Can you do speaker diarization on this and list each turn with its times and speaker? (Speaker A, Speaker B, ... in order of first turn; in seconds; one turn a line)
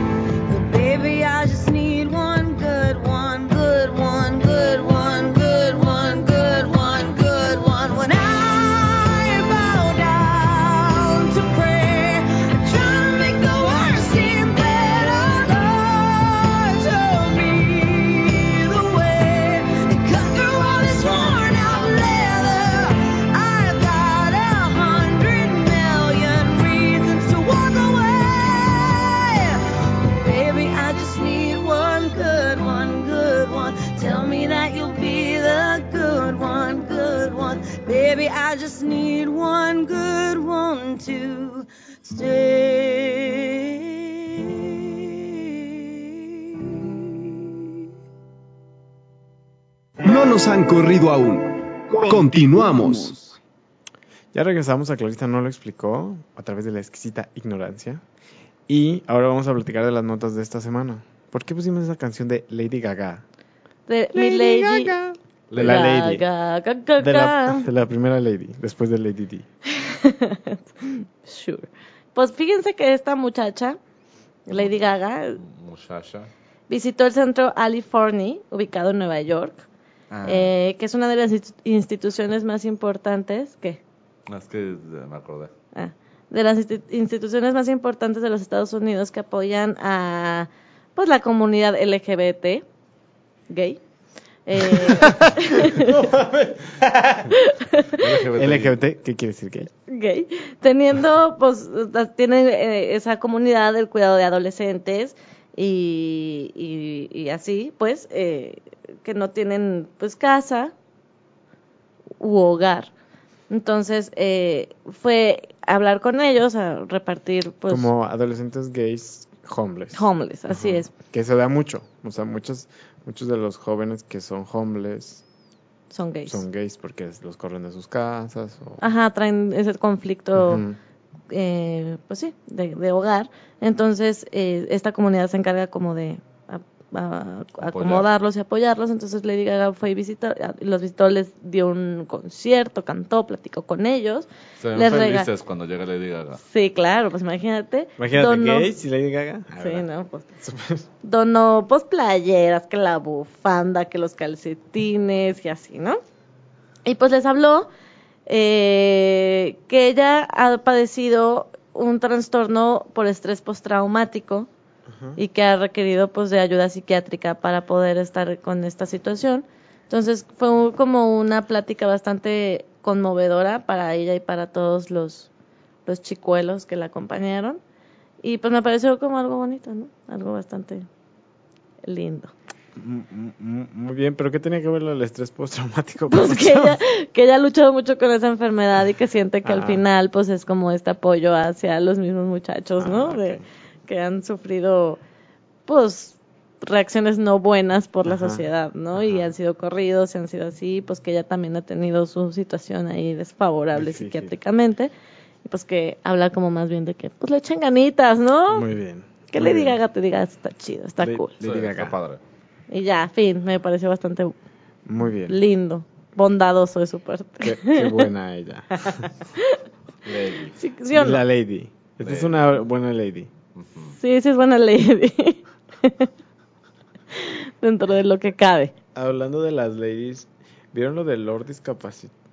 Speaker A: 0.5-47.6
Speaker B: 50.0-53.4
Speaker C: 54.3-58.0
Speaker C: 58.7-63.2
Speaker D: 63.9-64.9
Speaker C: 64.1-66.2
Speaker E: 65.5-66.0
Speaker D: 65.6-67.7
Speaker C: 67.0-69.5
Speaker D: 69.7-73.8
Speaker D: 74.5-75.4
Speaker E: 75.4-76.3
Speaker D: 76.7-79.7
Speaker E: 80.1-80.5
Speaker D: 80.2-83.8
Speaker E: 84.3-85.5
Speaker D: 85.7-92.6
Speaker D: 93.5-93.8
Speaker D: 94.5-96.1
Speaker C: 94.7-97.3
Speaker D: 97.3-98.0
Speaker E: 97.9-98.8
Speaker C: 98.3-99.7
Speaker D: 99.9-110.7
Speaker D: 112.2-112.9
Speaker D: 113.5-117.9
Speaker C: 117.7-125.2
Speaker D: 119.9-120.9
Speaker D: 125.9-126.4
Speaker C: 126.3-128.8
Speaker D: 128.8-130.6
Speaker C: 130.4-130.8
Speaker D: 131.3-145.3
Speaker E: 137.6-138.1
Speaker E: 144.6-146.4
Speaker D: 146.4-148.7
Speaker C: 148.0-150.9
Speaker D: 149.6-150.3
Speaker D: 151.0-156.0
Speaker D: 156.9-157.7
Speaker D: 158.3-164.5
Speaker C: 164.9-165.2
Speaker D: 165.2-175.3
Speaker D: 175.9-177.6
Speaker D: 178.2-180.9
Speaker D: 181.8-182.3
Speaker C: 182.8-186.8
Speaker D: 186.1-195.0
Speaker C: 189.4-189.8
Speaker C: 192.8-193.4
Speaker D: 195.7-204.9
Speaker C: 198.1-198.4
Speaker C: 199.0-199.3
Speaker C: 203.7-204.3
Speaker D: 205.4-208.7
Speaker C: 208.5-209.8
Speaker D: 209.3-211.3
Speaker C: 211.0-212.0
Speaker E: 211.4-212.2
Speaker D: 212.7-214.4
Speaker C: 214.9-215.4
Speaker D: 215.3-218.1
Speaker C: 217.4-219.1
Speaker D: 218.8-219.6
Speaker E: 220.1-220.6
Speaker D: 220.6-221.2
Speaker C: 220.9-223.3
Speaker E: 222.0-222.4
Speaker E: 223.6-224.0
Speaker D: 223.9-226.1
Speaker D: 227.1-228.7
Speaker C: 228.9-232.1